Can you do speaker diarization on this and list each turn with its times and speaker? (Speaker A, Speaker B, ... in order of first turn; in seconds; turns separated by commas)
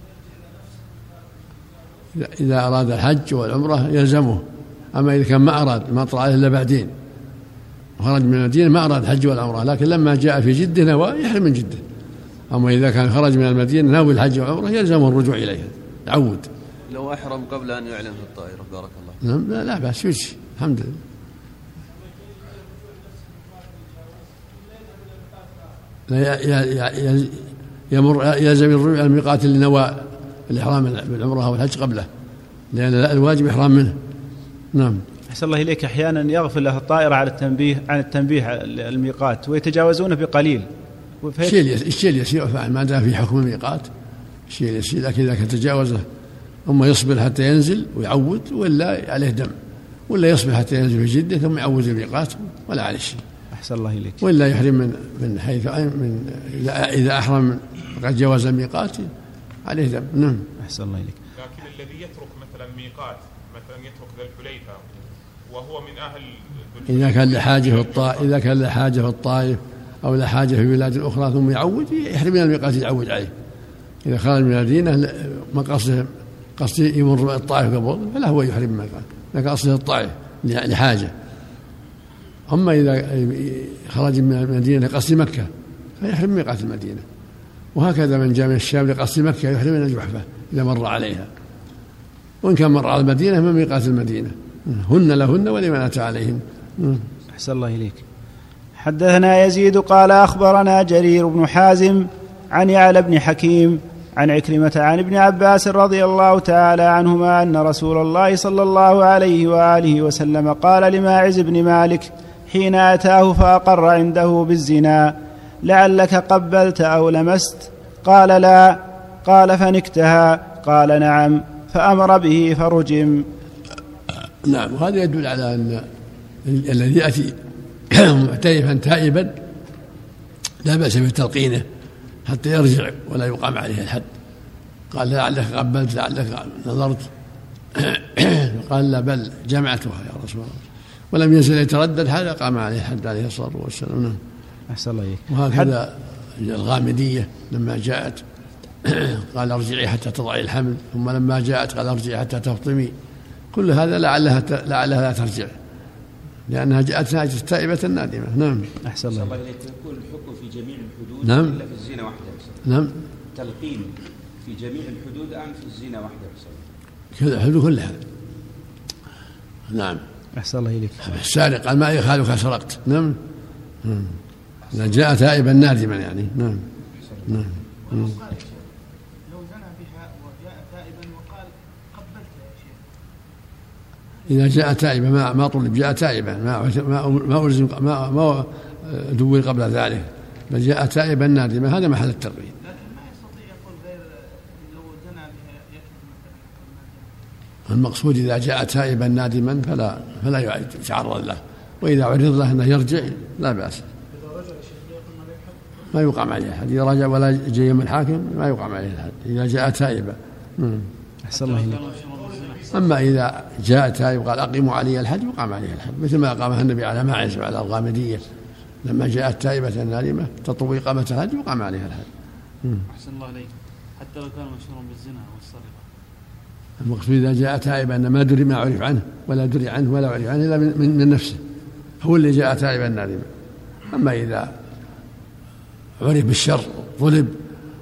Speaker A: 2.1-6.9, Speaker A: 8.0-11.8, Speaker A: 12.5-16.5, Speaker B: 16.9-19.2, Speaker A: 19.2-21.0, Speaker A: 26.1-32.1, Speaker A: 32.7-34.0, Speaker A: 34.7-35.0, Speaker C: 35.3-40.7, Speaker C: 41.2-41.6, Speaker A: 41.4-43.9, Speaker A: 44.5-46.0, Speaker A: 46.7-49.6, Speaker A: 50.1-53.2, Speaker C: 53.5-54.2, Speaker A: 54.2-59.1, Speaker A: 59.6-60.5, Speaker C: 60.6-61.2, Speaker D: 61.4-68.3, Speaker A: 66.9-73.3, Speaker A: 74.0-81.1, Speaker A: 82.5-87.0, Speaker A: 87.8-91.3, Speaker A: 92.4-97.1, Speaker C: 97.3-98.0, Speaker C: 98.8-123.2, Speaker A: 124.4-125.9, Speaker A: 126.5-127.4, Speaker A: 127.9-129.4, Speaker A: 130.6-131.7, Speaker A: 132.3-134.1, Speaker A: 134.9-137.1, Speaker A: 137.8-144.2, Speaker C: 144.7-145.7, Speaker A: 145.3-148.2, Speaker A: 148.8-152.9, Speaker A: 153.5-155.5, Speaker A: 156.5-158.7, Speaker C: 158.8-159.3, Speaker E: 159.1-162.6, Speaker A: 161.2-161.6, Speaker A: 162.6-163.1, Speaker E: 163.3-166.7, Speaker A: 167.1-168.0, Speaker A: 169.7-170.0, Speaker C: 170.4-171.1, Speaker A: 171.0-173.2, Speaker A: 173.8-174.2, Speaker A: 174.7-176.7, Speaker A: 177.3-178.2, Speaker F: 177.9-178.6, Speaker F: 179.3-182.8, Speaker A: 184.3-192.6, Speaker F: 192.7-197.1, Speaker A: 197.7-203.8, Speaker F: 204.3-205.6, Speaker A: 205.8-210.9, Speaker C: 211.3-211.9, Speaker G: 211.4-211.7, Speaker B: 211.9-212.7, Speaker A: 212.7-218.2, Speaker A: 218.8-222.1, Speaker G: 222.9-225.8, Speaker A: 226.8-231.4, Speaker A: 232.0-233.3, Speaker A: 233.9-234.5, Speaker A: 236.0-237.4